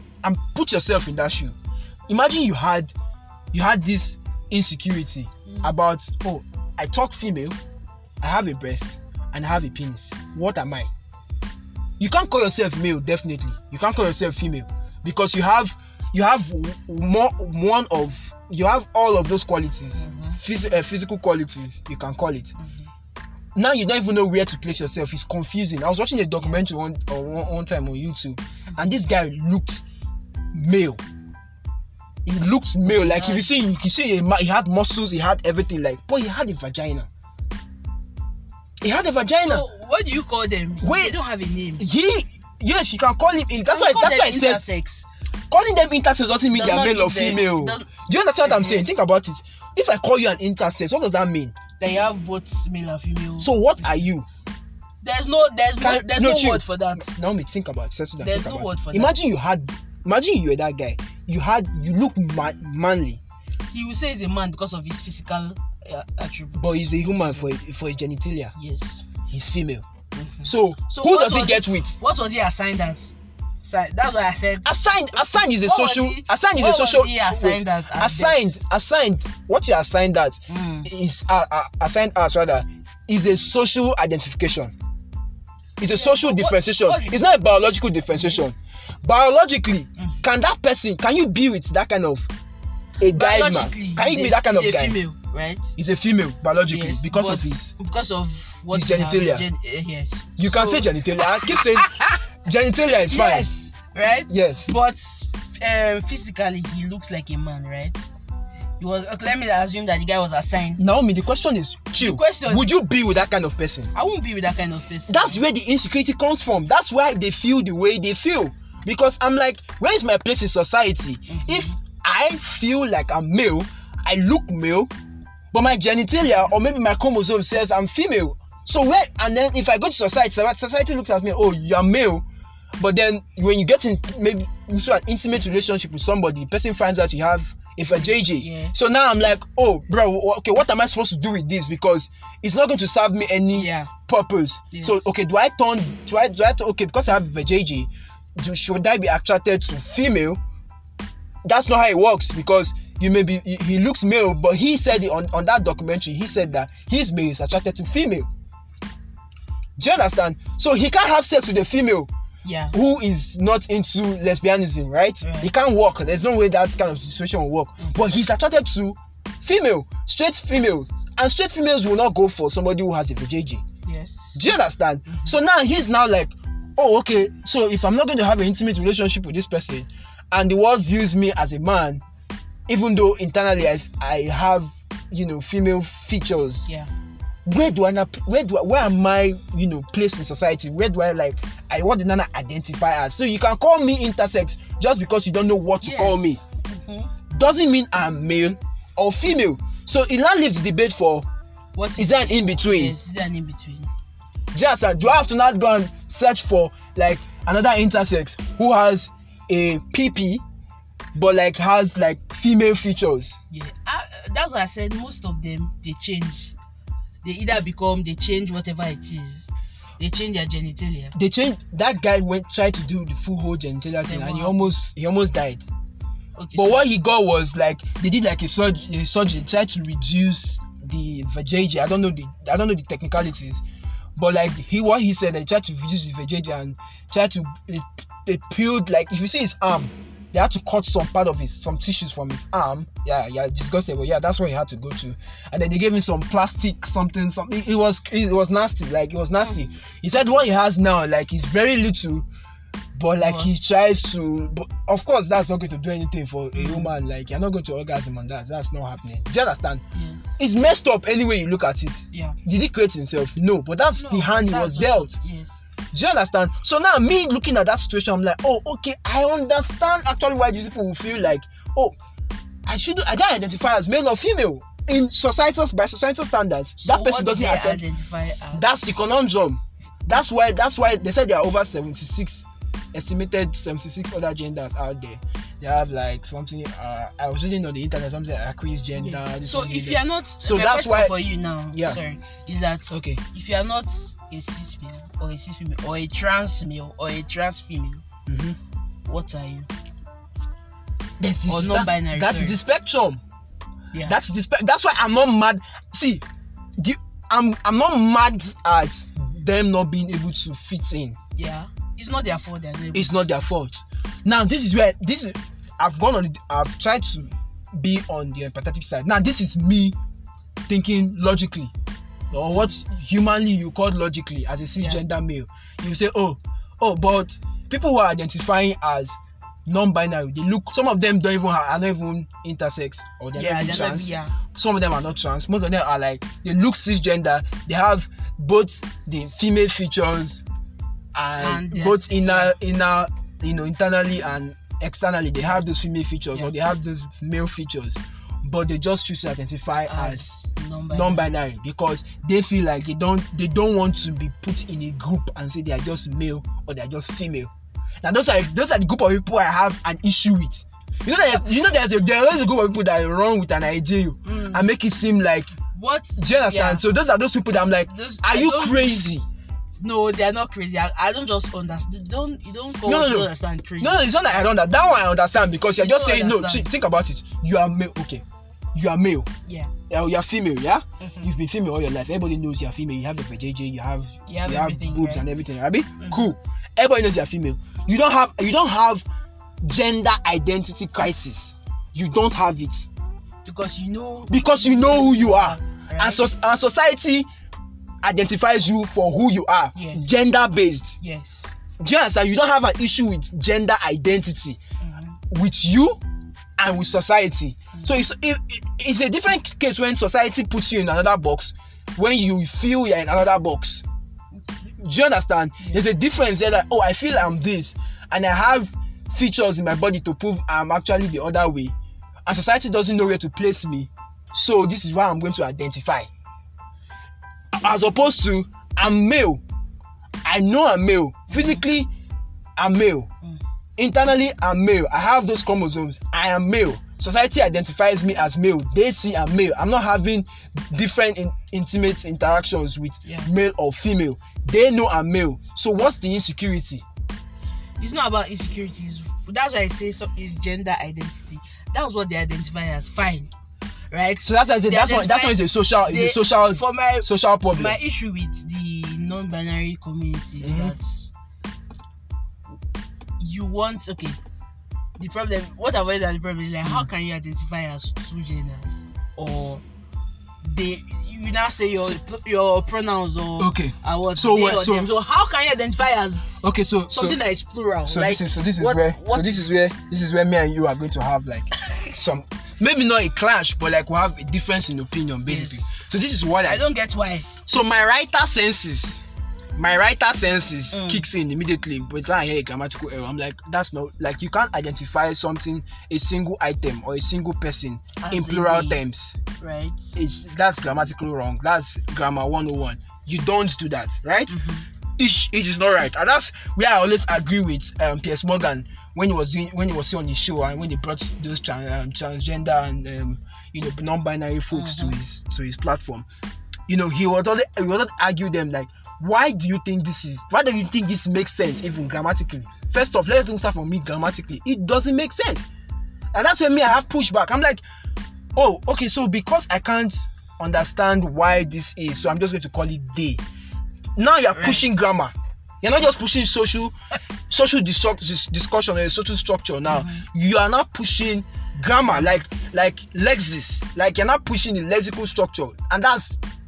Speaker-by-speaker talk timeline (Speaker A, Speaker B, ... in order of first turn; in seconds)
Speaker A: 0.2-1.6, 2.1-2.9, 3.5-7.6, 8.2-10.9, 12.0-22.5, 23.6-29.8, 30.5-31.0, 32.2-37.1, 38.8-39.6, 40.8-41.2, 41.8-44.6, 45.5-51.6, 53.4-54.3, 55.8-63.2, 66.6-68.5, 69.3-69.9, 70.5-72.0, 74.7-84.7, 85.8-92.3, 93.0-95.0, 95.8-97.7, 98.7-99.5, 100.4-101.9, 102.5-103.5, 104.3-104.7, 110.8-113.9, 115.1-124.9, 125.5-132.2, 132.8-150.4, 151.4-158.3, 159.8-162.1, 162.7-173.6, 174.3-182.0, 182.7-186.7, 187.5-196.4, 197.3-201.3, 202.0-202.9, 204.5-210.4, 211.2-213.4, 221.1-225.7, 226.6-233.6, 234.2-252.3, 252.9-259.8, 260.4-265.2, 265.9-272.0, 272.7-277.8, 278.5-291.1, 291.7-292.0, 292.9-293.2, 298.3-298.6, 301.2-303.2, 304.1-306.2, 306.8-311.2, 312.9-320.0, 320.7-321.7, 322.3-340.4, 341.1-350.3, 350.9-357.5, 358.0-365.5, 366.2-369.2, 372.9-379.3, 379.9-389.1, 389.6-392.9, 394.3-397.3, 398.0-401.0, 401.8-404.6, 405.3-406.0, 406.6-413.8, 414.8-421.8, 422.3-426.1, 427.5-429.4, 430.2-431.9, 432.6-433.1, 433.8-446.8, 454.2-457.8, 460.4-460.8, 473.4-474.9, 476.4-477.2, 477.9-486.6, 487.5-489.0, 489.6-499.2, 499.9-504.4, 505.0-516.1, 516.7-525.5, 526.1-527.6, 528.4-533.2, 534.0-536.8, 537.3-546.2
Speaker B: 5.5-5.7, 20.0-20.4, 22.6-22.9, 32.9-33.5, 39.4-41.8, 43.7-45.1, 46.5-47.9, 48.4-48.9, 51.8-54.1, 55.0-57.1, 58.2-59.1, 63.7-67.5, 68.5-69.0, 70.2-74.7, 75.4-78.6, 80.5-80.9, 85.9-87.4, 88.1-88.4, 93.1-95.7, 96.7-102.2, 103.1-108.1, 108.8-110.8, 112.0-112.7, 113.9-115.4, 121.3-121.8, 137.9-138.8, 143.5-143.9, 144.7-145.0, 162.4-162.8, 165.2-165.5, 173.8-174.4, 175.1-175.4, 195.8-197.1, 201.8-203.9, 213.5-216.5, 217.2-221.1, 224.1-224.7, 226.4-226.9, 253.2-253.5, 256.5-256.9, 259.9-260.3, 262.1-262.4, 264.0-265.6, 276.8-278.7, 288.9-298.0, 299.1-299.7, 301.5-302.6, 311.4-313.2, 322.4-322.7, 333.4-334.3, 341.4-342.5, 349.9-351.3, 364.2-364.7, 365.7-366.8, 367.9-369.0, 369.8-374.5, 375.8-376.7, 379.5-379.7, 381.0-381.3, 384.3-385.3, 386.0-386.3, 393.4-396.2, 399.7-400.1, 401.0-401.5, 404.8-405.2, 414.4-414.7, 431.3-431.6, 443.0-443.3, 447.8-453.3, 453.9-461.1, 463.2-464.2, 465.0-469.6, 470.4-476.3, 476.9-479.5, 485.3-485.7, 486.4-487.3, 490.7-491.1, 498.0-498.8, 499.4-499.9, 504.3-504.7, 514.5-515.0, 534.3-534.8, 539.7-540.0, 541.9-542.2